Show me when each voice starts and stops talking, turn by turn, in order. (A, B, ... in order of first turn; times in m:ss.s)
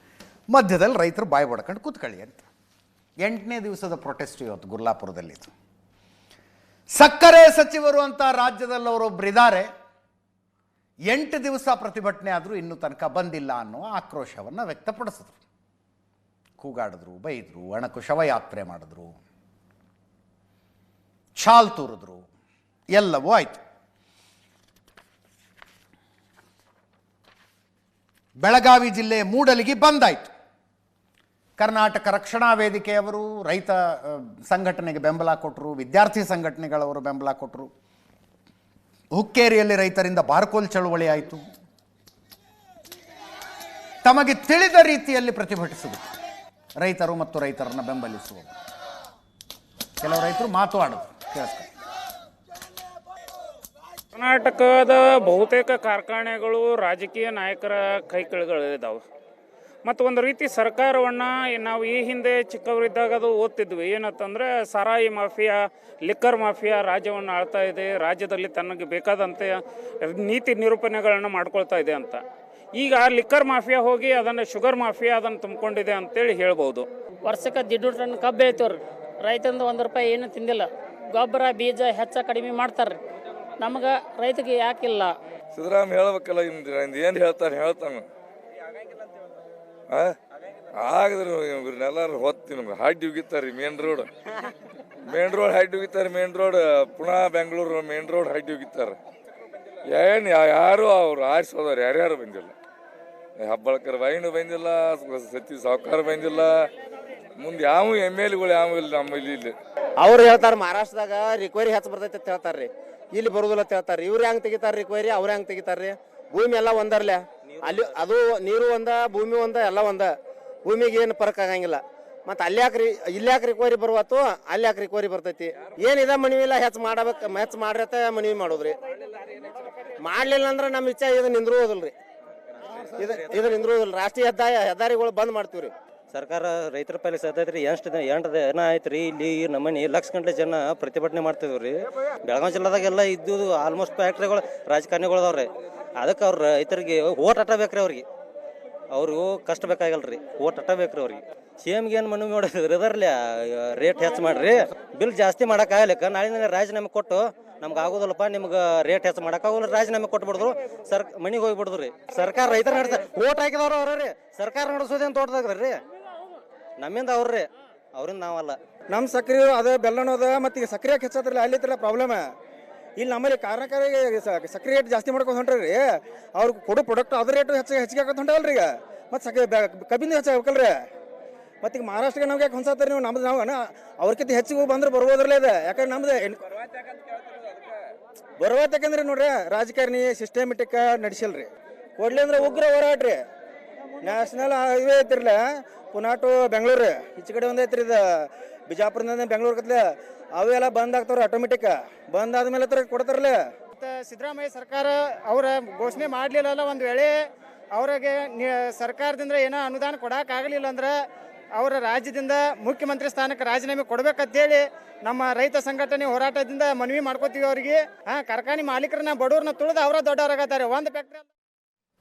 0:00.5-0:02.4 A
0:03.2-0:05.5 A
0:07.0-0:09.7 A
0:11.1-0:15.4 A
0:16.6-0:19.2 A
0:21.4-0:22.2 A
0:22.9-0:23.6 A
0:28.4-0:30.3 A
0:31.6-0:37.7 A
0:39.1-0:41.5 A
0:44.0-0:46.0 A
0:46.8-0:48.5 A
0:50.0-0:51.7 A
0:54.1-0:59.0 B
0:59.8-1:12.2 B
1:12.7-1:16.8 B
1:17.2-1:23.0 C
1:23.6-1:25.1 C
1:25.5-1:28.0 D
1:29.9-1:30.2 D
1:30.8-1:34.1 D
1:35.1-1:39.0 D
1:39.9-1:42.5 D
1:43.4-1:46.7 D
1:47.4-1:49.5 D
1:50.0-2:00.1 E
1:57.5-1:58.0 F
2:00.6-2:08.8 E
2:10.0-2:11.9 E
2:13.0-2:15.7 E
2:16.1-2:28.0 F
2:28.9-2:45.8 F
2:46.8-2:48.6 F
2:48.9-2:52.2 G
2:53.0-2:55.8 G
2:56.4-3:00.7 G
3:01.6-3:06.4 G
3:08.4-3:13.1 G
3:14.0-3:15.3 G
3:15.9-3:18.0 G
3:18.7-3:19.7 G
3:20.4-3:23.4 G
3:23.8-3:27.1 H
3:27.7-3:30.9 H
3:31.6-3:41.3 H